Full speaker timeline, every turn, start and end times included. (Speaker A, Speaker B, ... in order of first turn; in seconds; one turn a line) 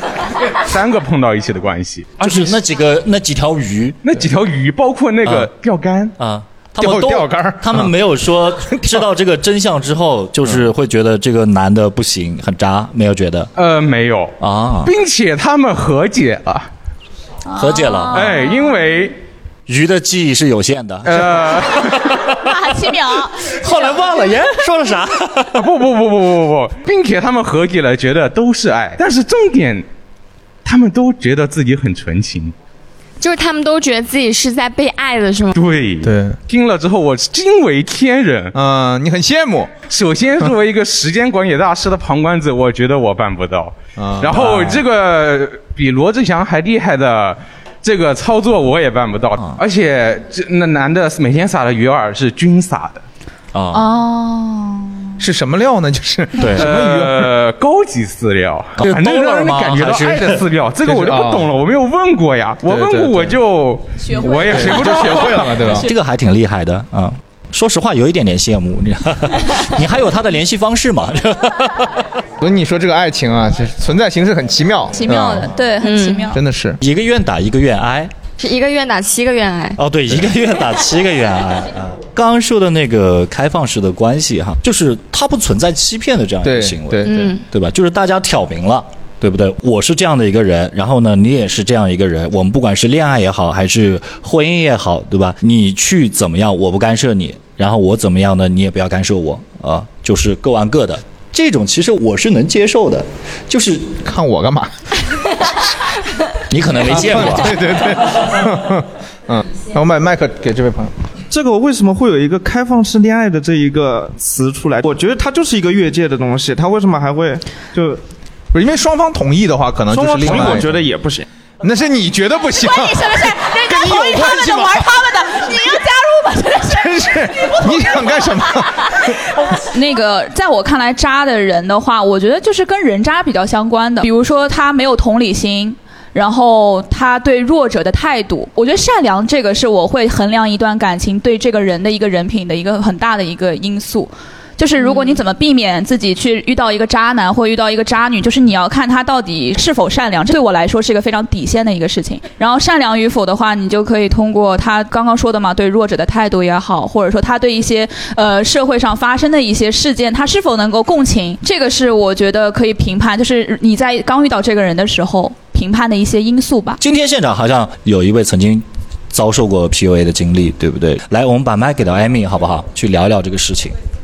Speaker A: 0.6-2.4
Speaker B: 2.2-4.0
Speaker A: 4.0-6.1
Speaker B: 5.2-5.5
Speaker B: 6.2-13.5
Speaker C: 6.8-7.9
Speaker A: 13.6-16.7
Speaker B: 14.4-14.9
Speaker D: 17.5-18.7
Speaker B: 17.5-18.4
Speaker A: 18.1-19.2
Speaker B: 19.7-22.8
Speaker A: 21.0-22.0
Speaker D: 22.3-23.4
Speaker B: 23.4-25.6
Speaker A: 25.5-29.9
Speaker A: 30.6-32.5
Speaker E: 33.2-35.5
Speaker A: 35.5-38.5
Speaker C: 36.0-36.4
Speaker C: 38.5-39.8
Speaker A: 39.8-53.0
Speaker C: 44.0-44.7
Speaker B: 44.3-44.8
Speaker B: 53.5-53.9
Speaker D: 53.7-55.1
Speaker C: 55.2-57.3
Speaker B: 56.4-56.7
Speaker A: 56.5-65.6
Speaker B: 58.8-60.4
Speaker C: 60.8-61.5
Speaker C: 62.6-63.3
Speaker D: 64.0-65.2
Speaker C: 64.5-65.9
Speaker B: 65.6-72.2
Speaker C: 72.4-75.5
Speaker D: 74.9-76.4
Speaker E: 75.8-76.2
Speaker C: 76.3-76.8
Speaker B: 76.8-78.1
Speaker E: 78.4-79.8
Speaker B: 79.8-104.0
Speaker C: 86.4-87.3
Speaker E: 87.0-87.4
Speaker C: 104.0-104.7
Speaker B: 106.5-107.9
Speaker C: 106.8-110.9
Speaker F: 111.3-118.0
Speaker C: 118.5-120.8
Speaker F: 119.9-121.2
Speaker C: 121.6-125.0
Speaker D: 122.6-166.8
Speaker C: 126.7-129.2
Speaker E: 144.8-145.2
Speaker B: 166.8-173.7